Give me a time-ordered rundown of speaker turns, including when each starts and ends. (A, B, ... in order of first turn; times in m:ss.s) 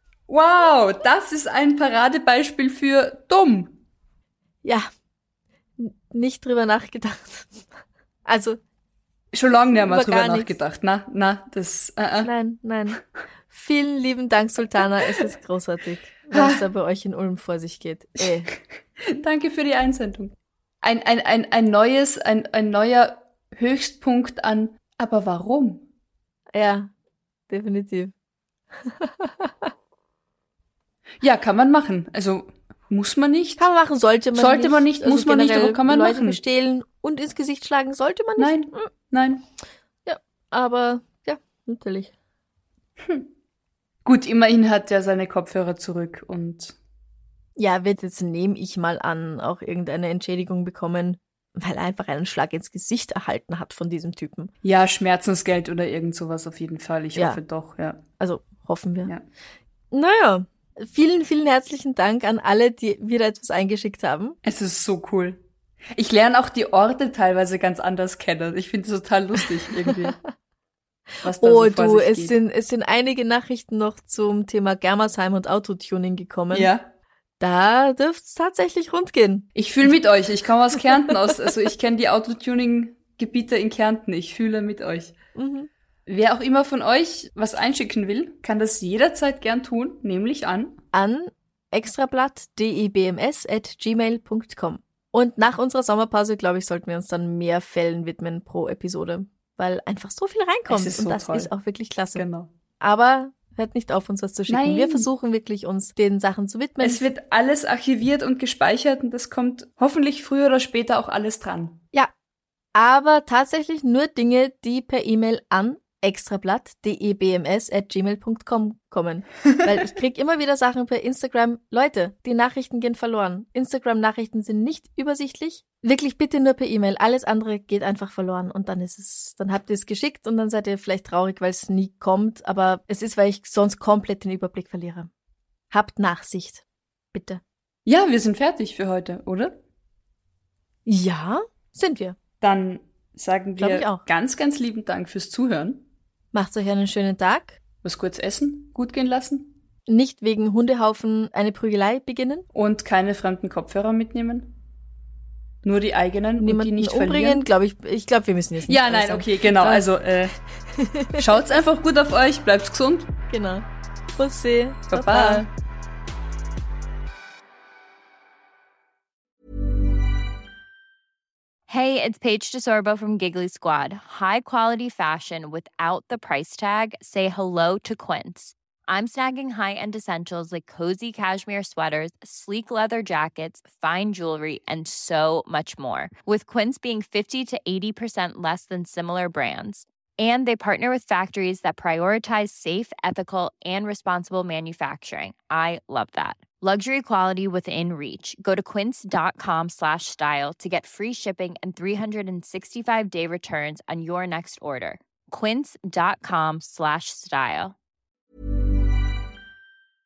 0:00.3-0:03.7 A
0:05.8-0:07.7 B
0:08.2-0:08.6 B
0:09.3-0:12.3 A
0:09.8-0:10.5 B
0:12.2-0:18.5 B
0:16.3-0:16.6 A
0:19.0-0:25.9 A
0:26.5-0:26.9 B
0:27.5-0:28.1 B
0:28.8-0:29.7 B
0:31.2-0:33.7 A
0:33.6-0:38.9 B
0:34.3-0:36.4 A
0:38.4-0:39.4 A
0:40.0-0:42.1 B
0:43.0-0:43.3 A
0:44.0-0:46.8 A
0:47.6-0:54.5 B
0:54.6-0:58.0 A
0:57.1-0:57.4 B
0:58.2-0:59.1 B
0:59.9-1:04.4 B
1:04.4-1:10.2 A
1:09.8-1:10.1 B
1:11.2-1:12.3 A
1:11.3-1:16.7 B
1:16.5-1:16.9 A
1:17.4-1:19.5 B
1:19.5-1:25.1 A
1:25.3-1:25.7 B
1:26.0-1:30.8 A
1:30.9-1:42.2 B
1:40.7-1:41.5 A
1:42.1-1:42.5 A
1:42.8-1:47.0 B
1:44.5-1:45.1 A
1:46.8-1:51.8 A
1:52.7-2:15.1 B
2:15.7-2:17.4 B
2:17.8-2:19.6 A
2:20.8-2:22.2 B
2:22.4-2:25.8 A
2:23.6-2:24.0 B
2:26.3-2:27.6 B
2:27.8-2:29.5 A
2:29.9-2:32.4 B
2:32.5-2:34.5 A
2:35.6-2:37.4 A
2:36.4-2:39.8 B
2:38.7-2:40.3 A
2:40.7-2:41.2 B
2:41.2-2:43.1 A
2:43.3-2:43.6 B
2:44.2-2:45.4 B
2:44.9-2:45.5 A
2:51.7-3:27.7 C